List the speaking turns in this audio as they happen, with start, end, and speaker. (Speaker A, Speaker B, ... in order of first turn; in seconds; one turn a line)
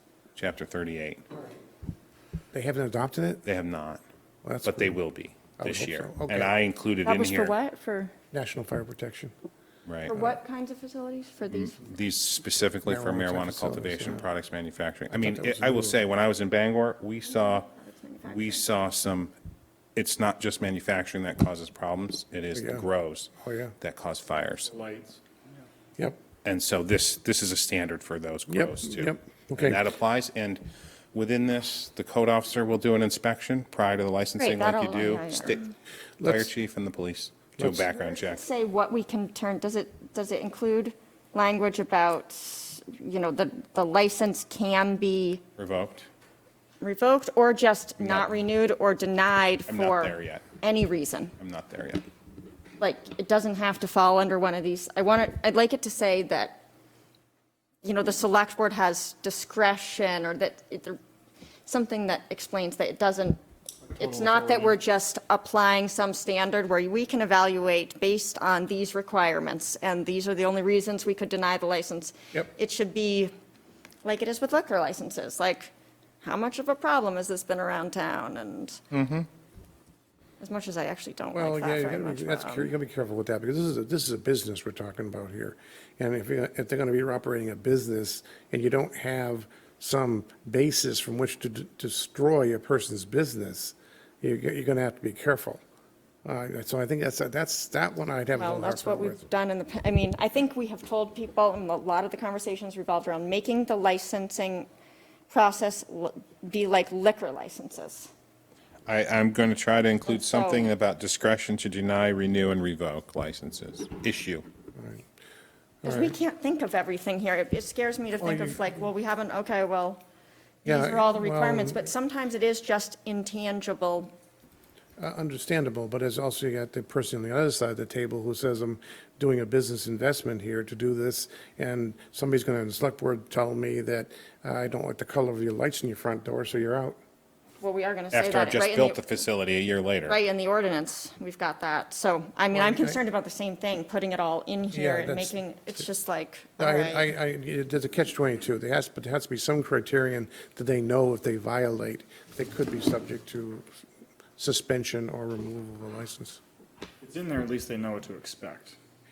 Speaker A: 0.3-1.2
Speaker B: 2.5-3.4
Speaker A: 3.5-4.0
Speaker B: 4.4-5.0
Speaker A: 4.6-7.5
Speaker B: 5.6-6.6
Speaker C: 7.0-8.1
Speaker B: 8.3-9.3
Speaker A: 9.9-10.2
Speaker C: 10.1-11.8
Speaker A: 11.5-17.7
Speaker B: 12.9-14.2
Speaker B: 15.1-16.0
Speaker C: 17.3-18.7
Speaker A: 18.2-19.3
Speaker A: 19.9-24.8
Speaker B: 22.6-22.9
Speaker B: 23.4-23.7
Speaker D: 24.7-25.2
Speaker A: 26.4-35.6
Speaker B: 28.5-29.8
Speaker C: 34.4-35.7
Speaker B: 36.2-36.5
Speaker A: 36.2-38.4
Speaker B: 37.6-37.8
Speaker C: 37.9-45.4
Speaker A: 45.6-46.1
Speaker C: 46.8-51.3
Speaker A: 48.0-48.3
Speaker A: 49.7-50.5
Speaker A: 51.4-52.0
Speaker C: 52.8-56.6
Speaker C: 57.8-61.0
Speaker C: 61.7-63.4
Speaker C: 63.9-73.3
Speaker C: 74.0-78.8
Speaker A: 78.9-79.3
Speaker C: 80.4-82.7
Speaker B: 81.3-95.6
Speaker B: 96.2-99.3
Speaker C: 98.3-104.7
Speaker C: 105.3-108.1
Speaker A: 108.9-114.5
Speaker C: 110.1-110.7
Speaker B: 114.8-115.1
Speaker B: 115.8-116.2
Speaker C: 115.8-120.0
Speaker B: 118.2-118.7
Speaker C: 120.6-124.1
Speaker B: 120.7-121.8
Speaker B: 125.0-137.0
Speaker C: 137.6-139.0
Speaker A: 138.1-140.2
Speaker C: 140.1-147.1
Speaker B: 142.5-143.0
Speaker B: 144.7-145.8
Speaker B: 146.6-153.7
Speaker B: 154.4-156.4
Speaker D: 157.0-158.8